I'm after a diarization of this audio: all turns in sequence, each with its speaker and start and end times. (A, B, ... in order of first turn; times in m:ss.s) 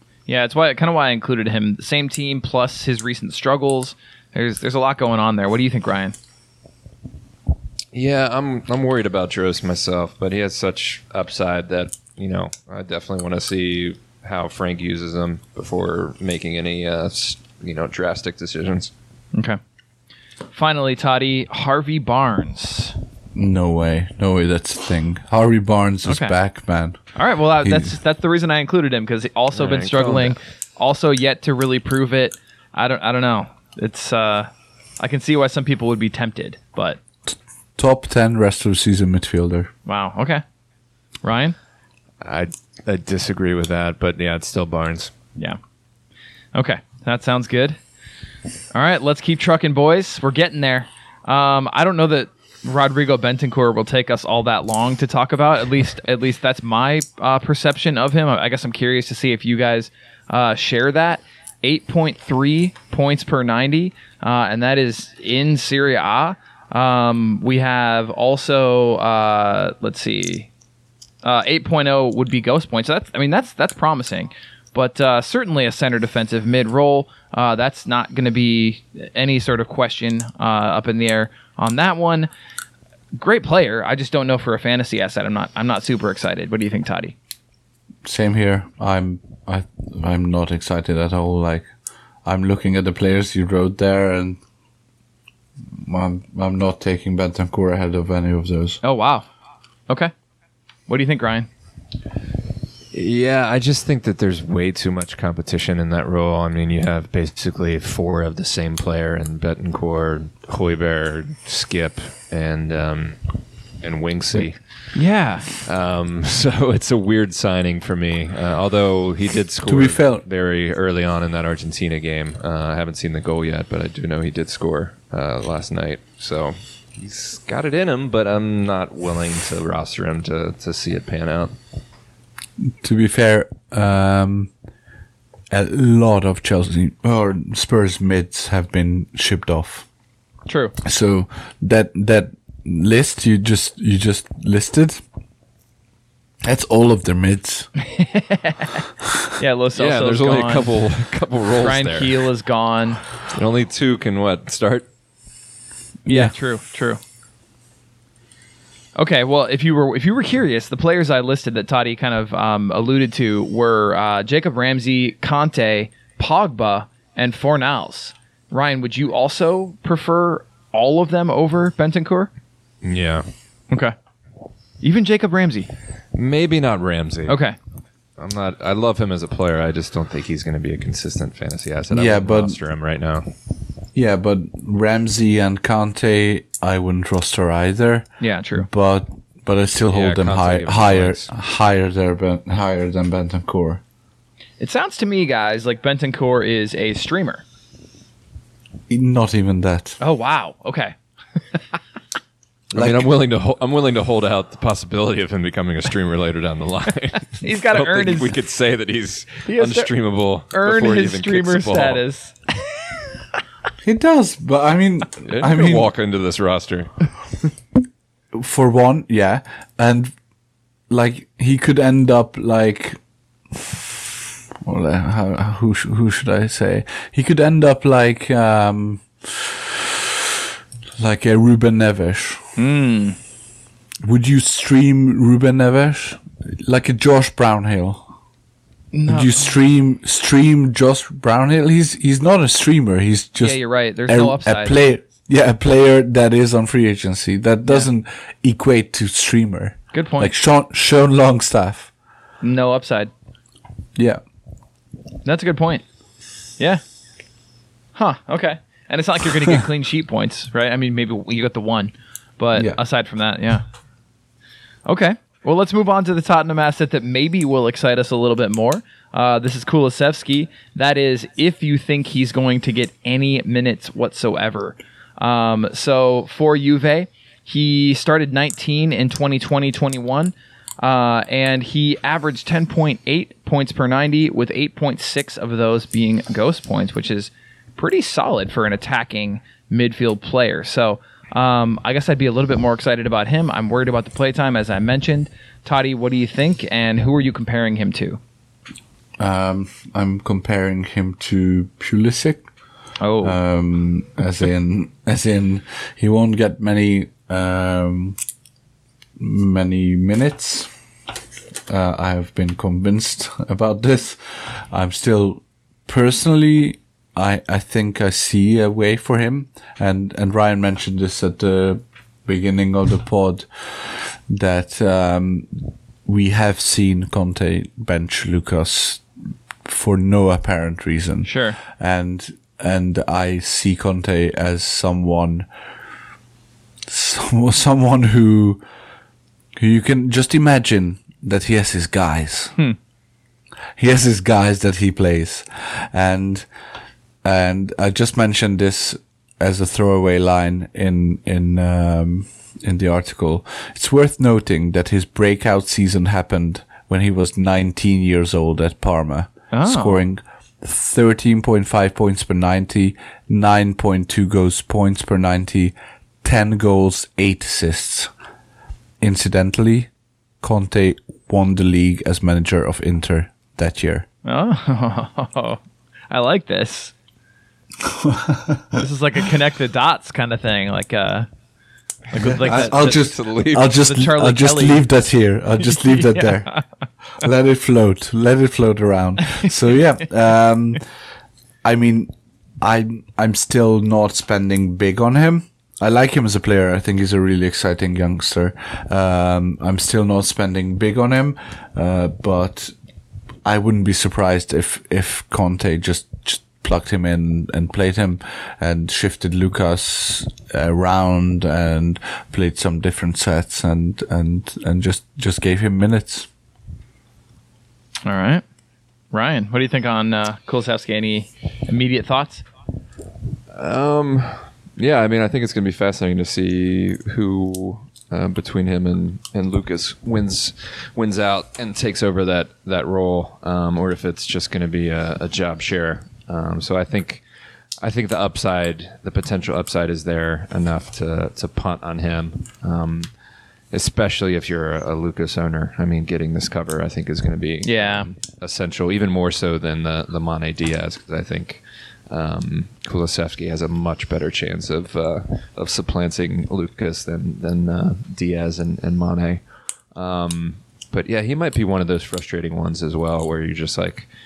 0:00.3-0:06.2 A
0:07.9-0:18.9 B
0:19.3-0:19.6 A
0:20.5-0:23.0 A
0:23.4-0:27.0 C
0:26.1-0:26.4 A
0:27.2-0:37.0 A
0:27.6-0:28.0 C
0:29.5-0:30.4 B
0:37.3-0:39.7 C
0:39.9-0:40.4 A
0:41.2-0:41.6 A
0:42.2-0:45.1 B
0:46.6-0:47.8 A
0:48.7-1:10.5 A
1:11.2-1:22.3 A
1:23.1-1:27.2 A
1:28.0-1:31.7 C
1:32.2-1:34.4 C
1:35.7-1:38.8 C
1:38.8-1:39.3 A
1:40.9-1:41.5 A
1:42.9-1:55.0 B
1:54.9-1:55.5 A
1:55.6-2:11.6 B
1:59.6-2:00.2 C
2:12.6-2:14.5 C
2:15.5-2:19.9 C
2:20.5-2:20.8 A
2:20.8-2:25.0 C
2:26.4-2:27.7 C
2:27.8-2:28.9 A
2:29.4-2:30.8 A
2:29.8-2:32.2 B
2:31.6-2:33.0 A
2:33.2-2:34.9 B
2:36.1-2:37.0 A
2:36.1-2:36.3 C
2:39.0-2:52.3 A
2:52.8-2:53.3 B
2:53.7-2:54.0 A
2:54.8-2:55.7 A
2:56.1-2:57.4 B
2:57.3-2:57.6 A
2:58.2-3:03.3 B
3:01.9-3:02.6 C
3:03.9-3:13.8 C
3:08.2-3:08.7 A
3:09.9-3:11.3 B
3:14.6-3:17.4 A
3:18.9-3:20.0 C
3:20.0-3:21.0 A
3:22.7-3:32.0 B
3:22.8-3:23.1 C
3:27.4-3:28.3 A
3:29.5-3:29.9 A
3:30.5-3:32.7 A
3:33.8-3:35.9 C
3:35.3-3:37.2 B
3:38.3-3:40.1 C
3:40.9-3:43.0 C
3:43.5-3:43.9 C
3:44.6-3:50.1 C
3:51.0-3:52.4 C
3:52.6-3:53.2 A
3:54.0-3:58.1 C
3:58.9-3:59.3 A
3:59.1-4:11.9 C
4:03.4-4:04.8 A
4:09.9-4:10.3 A
4:12.4-4:13.1 A
4:14.0-4:14.2 C
4:15.2-4:15.8 A
4:18.0-4:23.6 A
4:24.9-4:58.2 A
4:59.2-5:02.5 C
5:03.0-5:03.4 A
5:03.2-5:08.2 C
5:09.2-5:10.7 C
5:11.7-5:29.0 C
5:29.6-5:35.5 C
5:31.2-5:31.6 A
5:36.9-5:38.6 C
5:39.6-5:42.6 C
5:43.8-5:46.5 C
5:47.2-6:08.1 C
5:59.5-6:00.0 A
6:09.0-6:09.9 C
6:10.4-6:14.1 C
6:14.2-6:15.6 A
6:16.1-6:16.9 A
6:17.8-6:18.8 C
6:18.8-6:21.3 A
6:22.1-6:23.0 A
6:22.2-6:26.5 C
6:22.4-6:23.7 B
6:23.7-6:24.9 A
6:25.7-6:26.6 A
6:27.2-6:30.8 C
6:31.6-6:42.7 C
6:43.4-6:56.3 C
6:58.0-6:58.4 A
6:59.1-7:02.4 A
7:03.5-7:17.2 B
7:17.8-7:23.1 B
7:23.7-7:44.1 B
7:27.6-7:28.1 A